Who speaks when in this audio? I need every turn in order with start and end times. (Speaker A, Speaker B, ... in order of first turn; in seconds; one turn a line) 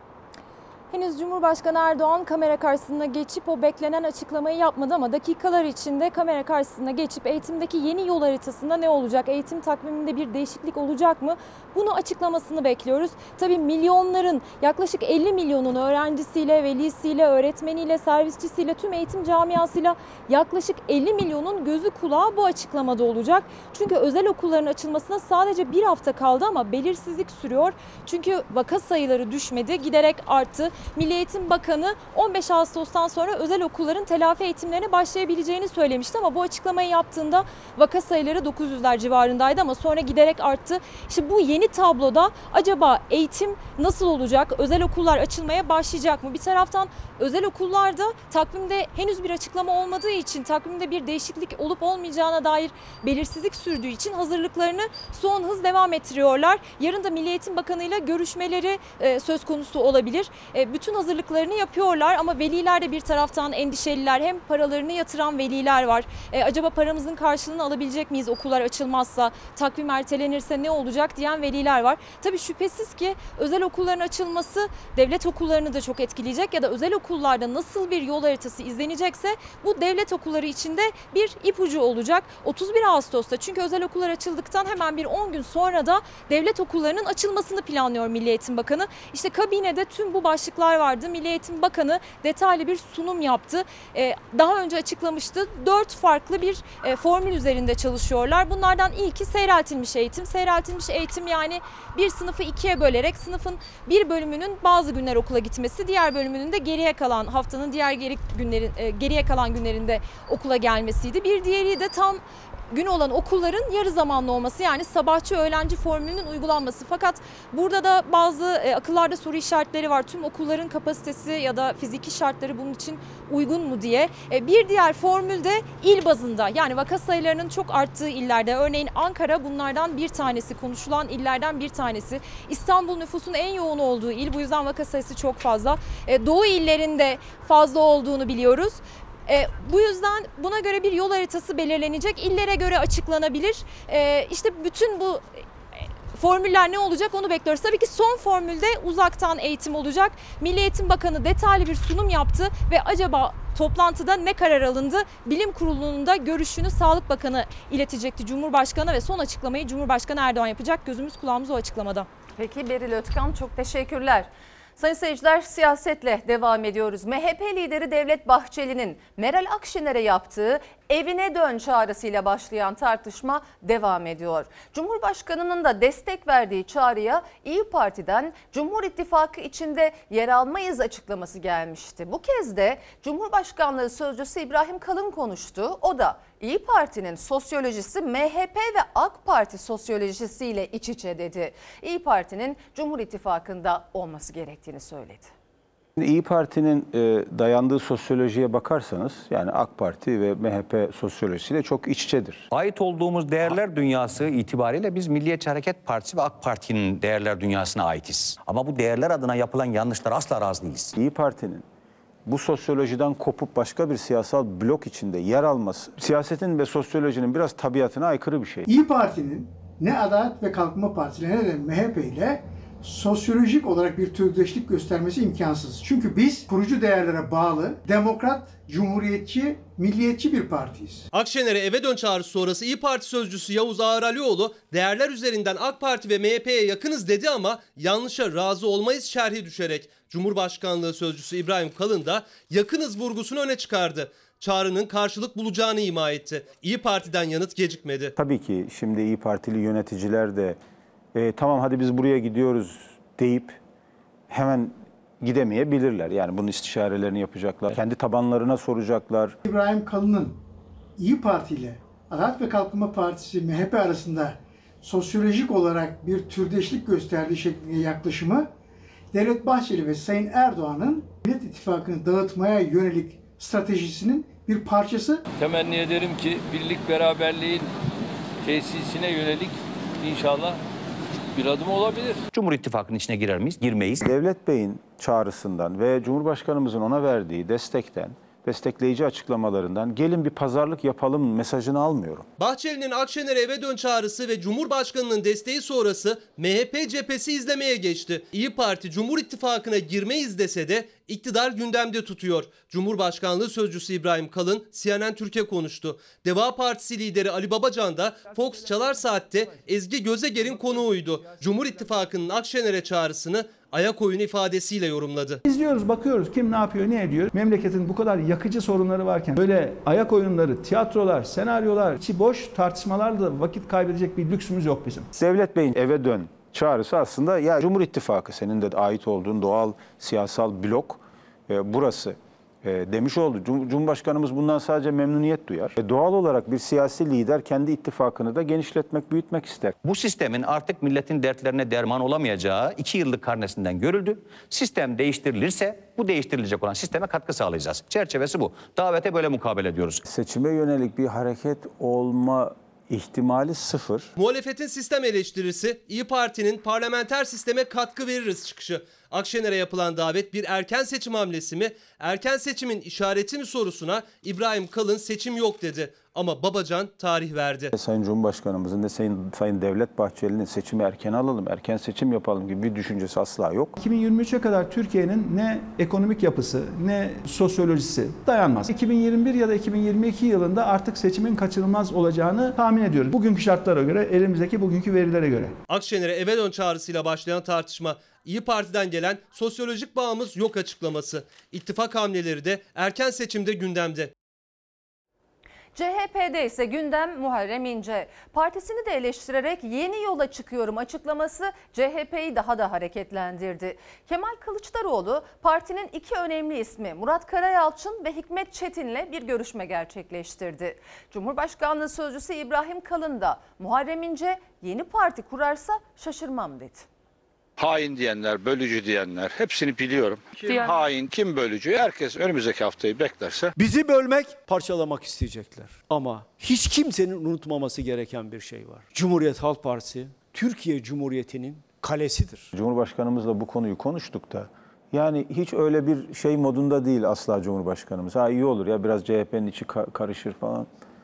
Speaker A: 0.9-145.2
Speaker A: 146.1-162.1
Speaker B: 162.4-195.3
Speaker C: 196.0-202.5
Speaker D: 202.5-210.9
Speaker C: 210.9-211.6
Speaker C: 212.2-218.7
Speaker E: 218.7-231.1
Speaker F: 231.1-248.1
Speaker C: 248.2-250.6
Speaker C: 251.1-253.6
Speaker C: 254.3-259.4
Speaker E: 259.4-260.4
Speaker E: 261.0-268.5
Speaker E: 269.1-275.2
Speaker G: 275.4-277.7
Speaker G: 278.4-280.6
Speaker G: 281.3-282.2
Speaker D: 282.3-284.1
Speaker C: 284.0-292.2
Speaker F: 292.4-315.4
Speaker H: 315.4-325.1
Speaker C: 325.2-339.7
Speaker D: 339.8-350.0
Speaker C: 350.0-354.1
Speaker F: 354.1-367.7
Speaker C: 367.7-373.7
Speaker H: 373.8-385.6
Speaker F: 385.7-394.1
Speaker B: 395.7-416.9
Speaker I: 417.6-423.5
Speaker J: 423.6-432.5
Speaker C: 432.5-440.7